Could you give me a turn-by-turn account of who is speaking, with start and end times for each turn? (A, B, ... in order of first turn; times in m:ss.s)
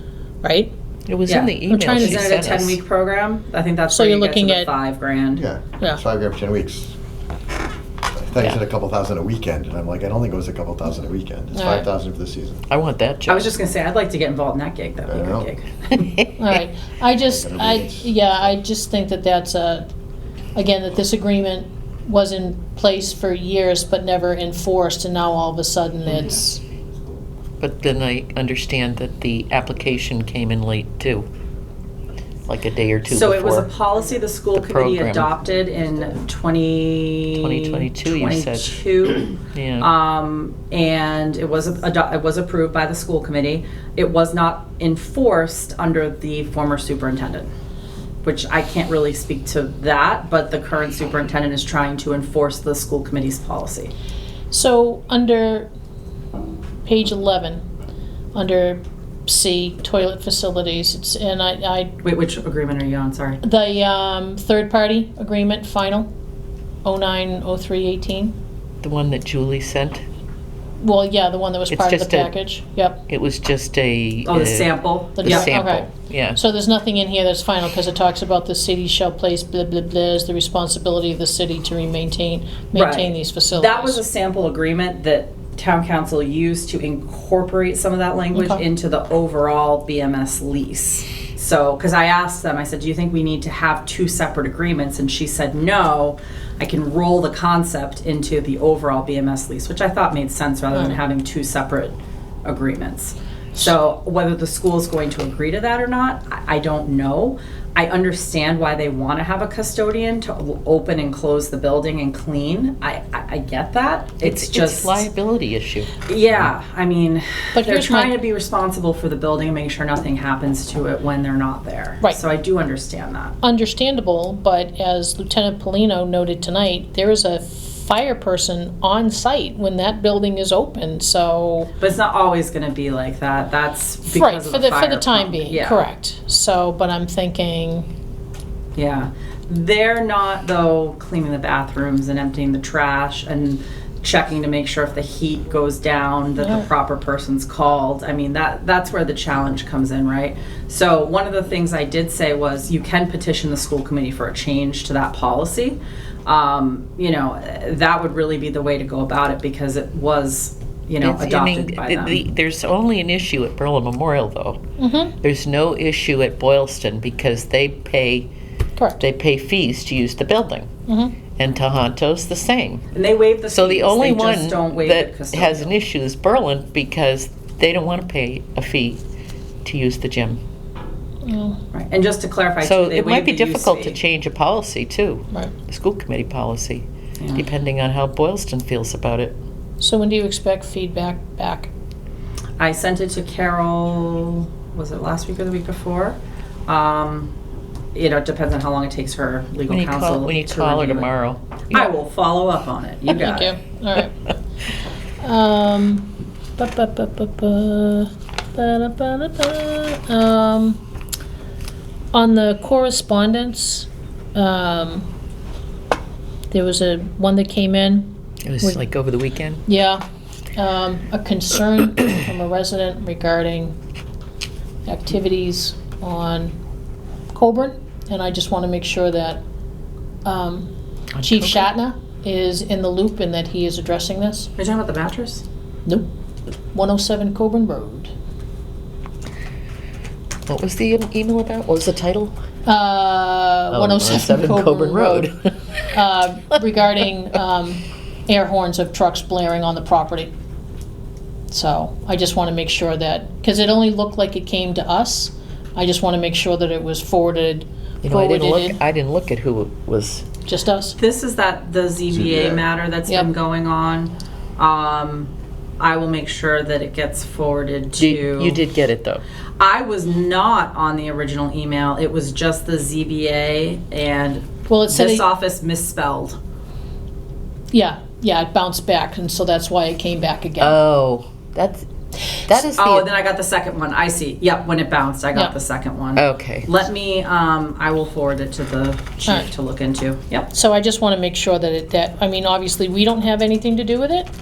0:00.4-0:00.7 A
0:01.1-0:02.8 B
0:01.3-0:05.4 C
0:01.7-0:02.2 A
0:03.9-0:04.7 A
0:05.4-0:06.9 D
0:08.1-0:12.6 D
0:11.5-0:11.8 A
0:12.7-0:13.5 B
0:13.3-0:16.1 C
0:15.1-0:15.5 D
0:16.0-0:16.3 B
0:16.4-0:19.9 A
0:17.2-0:18.3 D
0:20.6-0:26.6 A
0:27.6-0:31.3 B
0:32.5-0:33.7 B
0:33.1-0:47.5 C
0:34.5-0:35.3 B
0:37.3-0:38.8 B
0:39.5-0:39.9 B
0:48.2-0:53.9 C
0:54.5-0:55.7 A
0:56.8-0:57.6 A
0:58.3-1:02.0 A
1:02.0-1:03.4 C
1:03.4-1:06.1 A
1:06.8-1:08.4 A
1:08.8-1:10.0 B
1:10.8-1:13.0 A
1:11.7-1:12.3 B
1:13.1-1:16.4 B
1:14.2-1:15.6 C
1:15.2-1:24.0 A
1:22.8-1:55.1 C
1:28.3-1:28.6 A
1:54.2-1:56.5 B
1:56.1-2:03.3 C
1:57.6-1:58.2 A
2:03.4-2:11.7 A
2:11.8-2:15.8 C
2:14.0-2:17.9 A
2:18.8-2:42.2 C
2:26.4-2:26.7 A
2:41.0-2:44.6 B
2:44.8-2:45.2 A
2:45.2-2:48.3 B
2:48.8-2:49.0 A
2:49.0-2:50.7 B
2:50.9-2:51.2 A
2:51.4-2:52.8 B
2:52.9-2:55.7 C
2:53.5-2:59.0 B
2:59.6-3:00.4 B
3:01.2-3:01.6 A
3:01.7-3:04.0 C
3:02.6-3:09.4 B
3:07.2-3:07.4 C
3:09.8-3:11.7 A
3:12.6-3:17.3 C
3:18.0-3:21.1 C
3:19.7-3:21.9 B
3:21.7-3:23.5 C
3:23.1-3:24.3 A
3:25.2-3:30.8 A
3:32.1-3:35.1 A
3:36.5-3:38.8 A
3:38.4-3:39.6 B
3:39.7-3:40.0 A
3:40.6-3:43.8 A
3:44.9-3:46.6 A
3:47.3-3:49.4 A
3:50.2-3:54.5 A
3:51.2-3:51.7 B
3:54.6-3:55.4 C
3:56.7-3:58.1 A
4:00.5-4:02.4 B
4:02.7-4:05.3 A
4:03.7-4:06.0 B
4:05.9-4:10.3 A
4:11.5-4:18.8 A
4:18.0-4:20.3 B
4:20.4-4:21.0 A
4:21.0-4:28.6 C
4:22.1-4:22.6 D
4:28.0-4:29.2 B
4:29.6-4:36.4 C
4:34.7-4:35.3 A
4:37.7-4:40.8 A
4:40.6-4:41.9 B
4:42.5-4:43.1 B
4:42.8-4:50.5 C
4:46.2-4:46.7 B
4:50.5-4:54.3 A